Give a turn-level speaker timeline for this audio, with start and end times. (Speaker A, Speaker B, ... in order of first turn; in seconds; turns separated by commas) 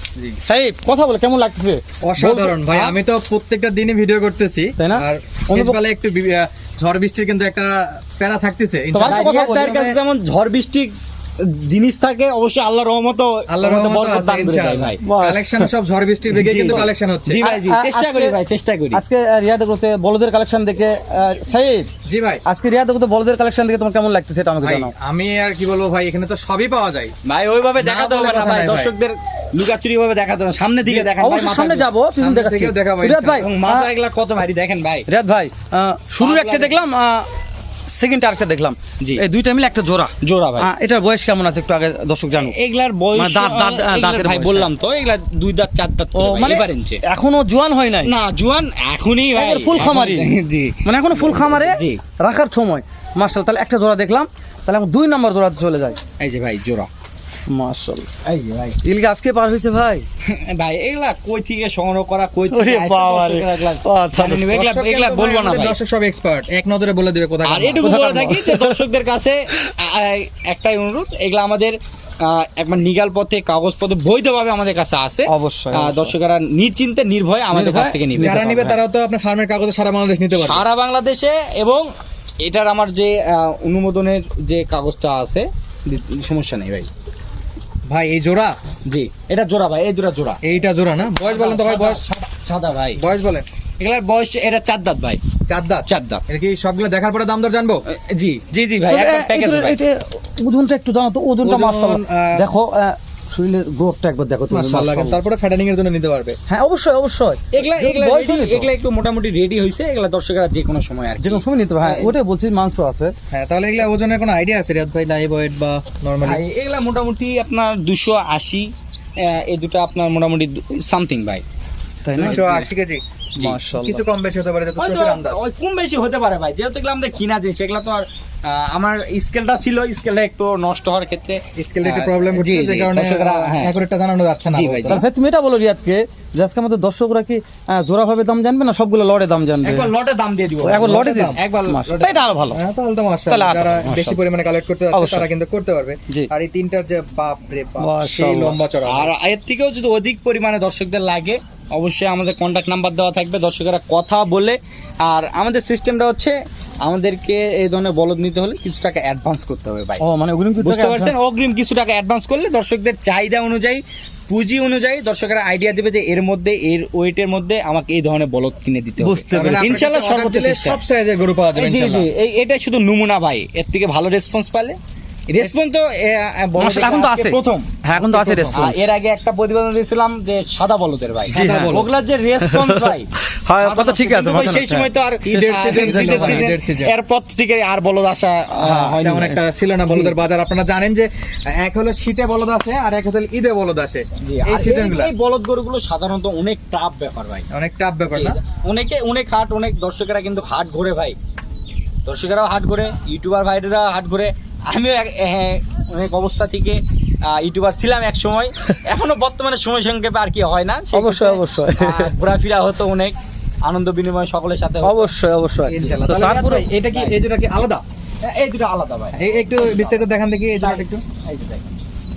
Speaker A: 0.4-2.6, Speaker B: 2.0-9.3, Speaker A: 4.8-5.8, Speaker A: 8.9-10.0, Speaker C: 9.1-15.0, Speaker B: 13.5-17.4, Speaker A: 15.0-15.7, Speaker C: 16.3-19.0, Speaker A: 17.4-18.4, Speaker A: 18.9-21.9, Speaker B: 22.1-22.4, Speaker A: 22.4-24.9, Speaker B: 24.6-27.1, Speaker C: 27.2-31.9, Speaker B: 27.8-28.9, Speaker A: 30.8-33.9, Speaker B: 32.2-33.5, Speaker C: 33.4-35.1, Speaker A: 35.1-37.2, Speaker C: 36.2-36.8, Speaker A: 37.9-42.5, Speaker C: 39.0-39.2, Speaker C: 40.2-40.7, Speaker C: 42.3-47.0, Speaker A: 43.1-44.7, Speaker A: 46.1-48.1, Speaker C: 48.0-52.0, Speaker A: 49.3-56.0, Speaker C: 56.2-56.9, Speaker A: 57.5-58.1, Speaker C: 58.2-58.8, Speaker A: 58.8-60.0, Speaker C: 60.2-65.8, Speaker A: 62.5-64.5, Speaker B: 64.5-67.9, Speaker C: 67.4-78.4, Speaker A: 67.8-68.8, Speaker A: 75.3-76.1, Speaker A: 77.5-78.8, Speaker B: 78.2-80.6, Speaker C: 80.3-81.9, Speaker C: 82.4-86.9, Speaker B: 87.9-88.5, Speaker C: 88.9-90.4, Speaker B: 90.4-92.0, Speaker C: 91.2-93.0, Speaker B: 93.0-93.4, Speaker C: 93.8-95.2, Speaker B: 95.5-97.8, Speaker C: 95.9-96.2, Speaker C: 97.9-99.8, Speaker A: 98.9-105.2, Speaker B: 101.4-102.5, Speaker B: 104.5-106.4, Speaker A: 106.5-108.7, Speaker C: 107.5-112.1, Speaker A: 111.2-113.1, Speaker B: 113.3-116.4, Speaker C: 116.2-121.4, Speaker A: 122.0-122.7, Speaker C: 122.2-122.4, Speaker B: 122.2-123.0, Speaker A: 123.3-124.0, Speaker B: 123.7-125.4, Speaker C: 124.8-133.7, Speaker B: 131.6-135.0, Speaker C: 134.5-135.0, Speaker A: 134.9-139.9, Speaker C: 139.6-142.3, Speaker A: 140.6-142.6, Speaker B: 140.7-141.4, Speaker B: 142.5-149.1, Speaker A: 143.3-144.2, Speaker A: 144.9-145.3, Speaker A: 147.8-148.6, Speaker C: 148.8-160.0, Speaker A: 160.0-161.1, Speaker C: 160.6-170.8, Speaker A: 169.0-169.8, Speaker B: 169.3-172.1, Speaker C: 171.5-174.8, Speaker C: 175.3-177.7, Speaker A: 176.6-178.8, Speaker B: 177.9-178.6, Speaker C: 178.5-189.3, Speaker B: 181.2-181.9, Speaker A: 181.3-181.9, Speaker A: 182.4-186.5, Speaker B: 185.2-186.9, Speaker B: 188.6-195.1, Speaker C: 189.9-190.1, Speaker C: 194.2-197.4, Speaker B: 197.5-198.4, Speaker C: 198.1-201.2, Speaker C: 202.1-215.1, Speaker A: 210.9-212.1, Speaker A: 214.8-216.7, Speaker B: 215.7-217.8, Speaker C: 218.2-220.0, Speaker B: 219.2-221.0, Speaker C: 220.6-221.7